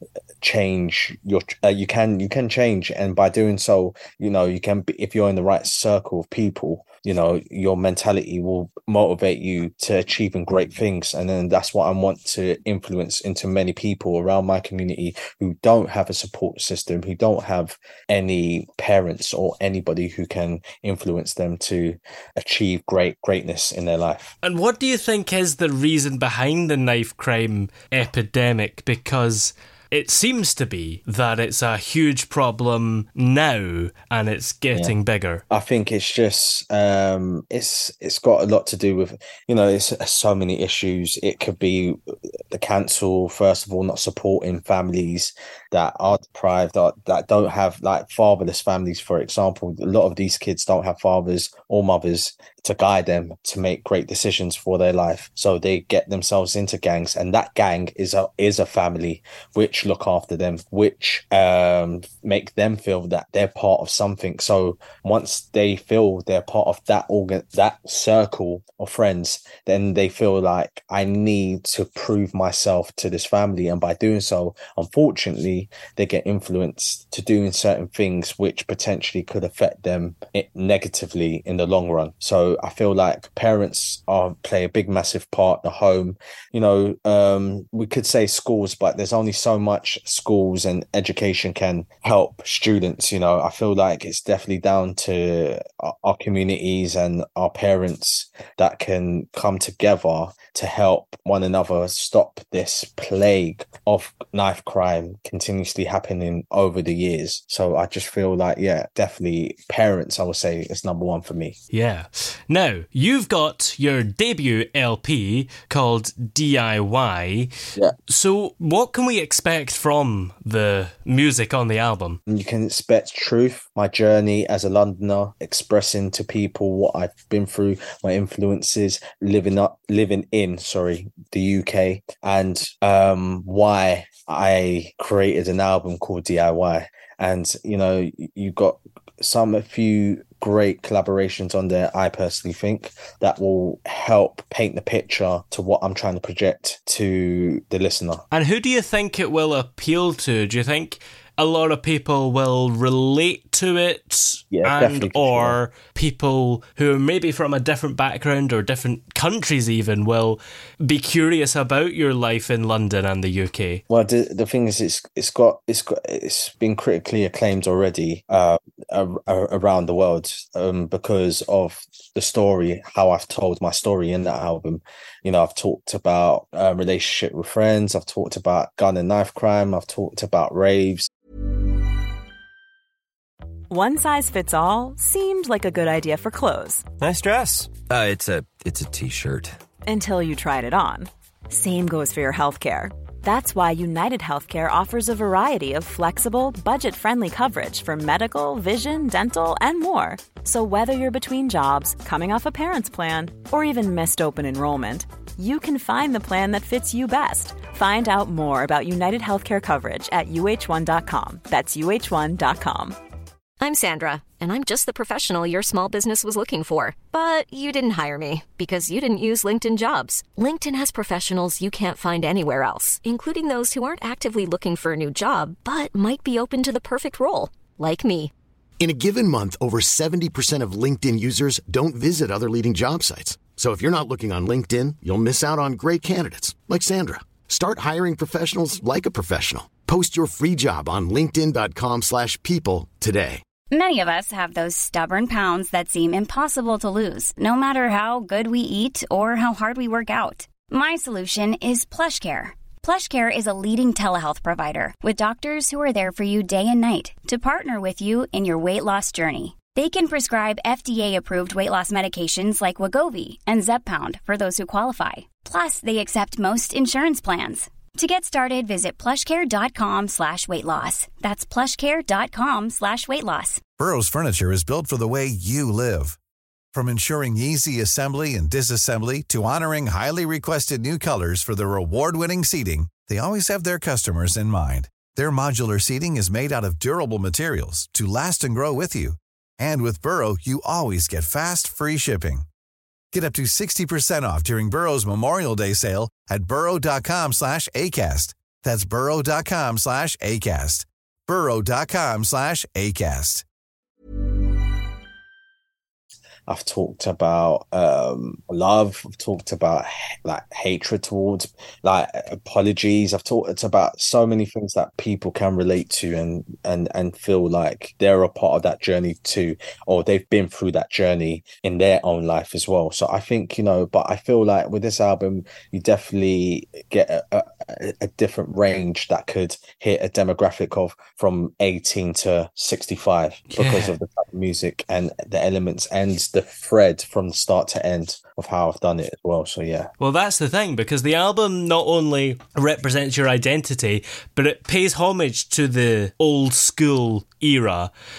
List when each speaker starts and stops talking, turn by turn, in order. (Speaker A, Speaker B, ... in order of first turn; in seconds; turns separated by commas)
Speaker A: 0.4-24.3, Speaker B: 24.4-35.4, Speaker A: 35.5-42.0, Speaker A: 42.5-111.6, Speaker B: 111.7-117.5, Speaker B: 118.1-122.2, Speaker A: 122.3-148.2, Speaker B: 148.3-163.8, Speaker A: 154.5-155.6, Speaker A: 163.9-181.1, Speaker C: 183.7-186.9, Speaker D: 187.0-189.5, Speaker C: 189.8-213.0, Speaker E: 213.6-228.3, Speaker F: 228.8-243.4, Speaker G: 243.7-273.6, Speaker H: 273.8-276.2, Speaker H: 276.7-292.4, Speaker H: 293.1-303.4, Speaker A: 306.5-339.9, Speaker B: 333.5-334.0, Speaker B: 340.0-347.9